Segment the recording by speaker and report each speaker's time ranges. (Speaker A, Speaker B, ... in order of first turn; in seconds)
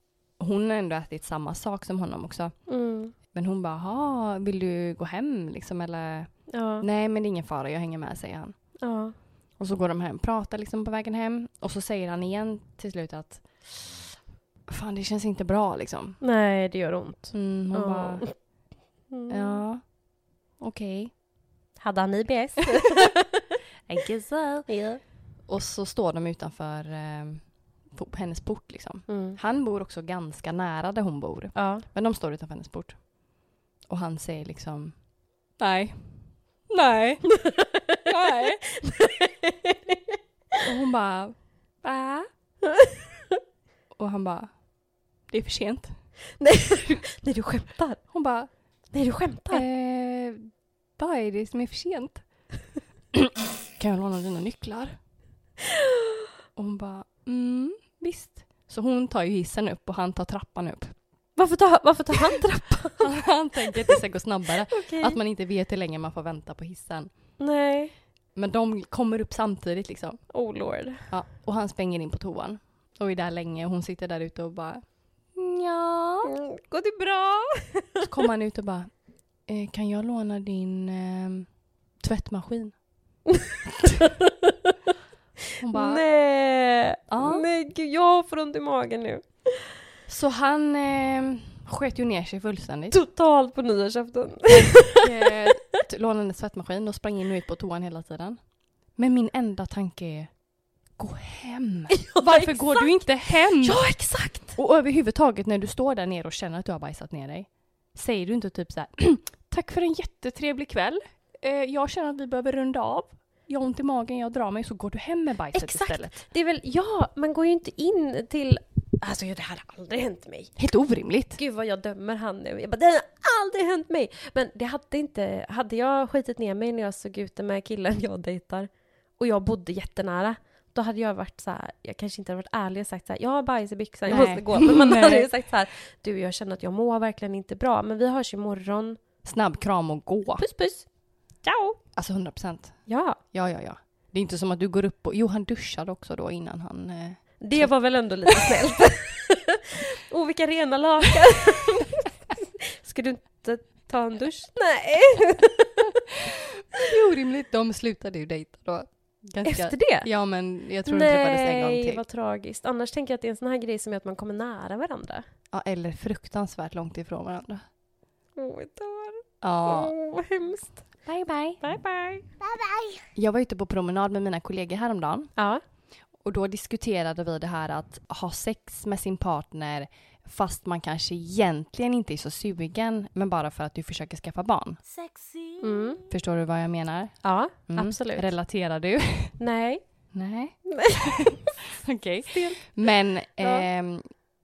Speaker A: 0.4-2.6, 3.3-8.5, 9.6-13.4, 14.7-16.2, 17.3-18.3, 19.3-19.8, 20.6-21.1, 23.9-24.7, 25.5-33.0, 33.9-35.0, 35.6-37.4, 38.1-38.6, 40.6-41.3, 44.0-44.5, 45.3-46.0, 48.1-48.5, 49.5-52.2, 53.1-55.0, 56.5-60.9, 63.0-67.1, 68.3-70.2, 71.1-76.3, 78.0-78.9, 79.5-81.5, 82.0-82.7, 85.6-86.0, 87.1-87.5, 90.1-93.0, 94.5-98.4, 98.9-100.3, 101.0-103.8, 104.5-116.2, 120.6-121.4, 134.1-135.3, 139.2-140.4, 141.9-147.7, 156.8-162.0, 165.5-167.6, 169.4-169.9, 171.1-171.6, 173.1-175.3, 176.2-184.8, 186.1-189.4, 190.1-190.6, 191.1-194.1
Speaker B: 2.7-3.1, 6.5-6.8, 8.8-9.1, 16.2-18.3, 19.1-19.6, 21.8-23.4, 24.7-25.0, 29.1-29.4, 31.5-31.9, 37.3-40.2, 41.8-43.0, 46.4-48.0, 48.9-49.6, 61.4-63.1, 63.7-64.0, 64.7-65.2, 67.4-67.9, 70.3-71.1, 76.2-78.0, 84.0-84.7, 85.7-89.6, 92.9-95.3, 101.9-104.6, 115.5-120.5, 121.4-139.0, 140.4-140.9, 141.4-141.8, 142.9-143.2, 147.4-155.9, 159.4-160.1, 160.8-165.2, 168.3-170.8, 171.6-173.0, 175.3-175.6, 185.6-186.0, 187.2-188.3, 189.4-189.8, 190.7-191.0, 192.2-192.7, 193.4-193.7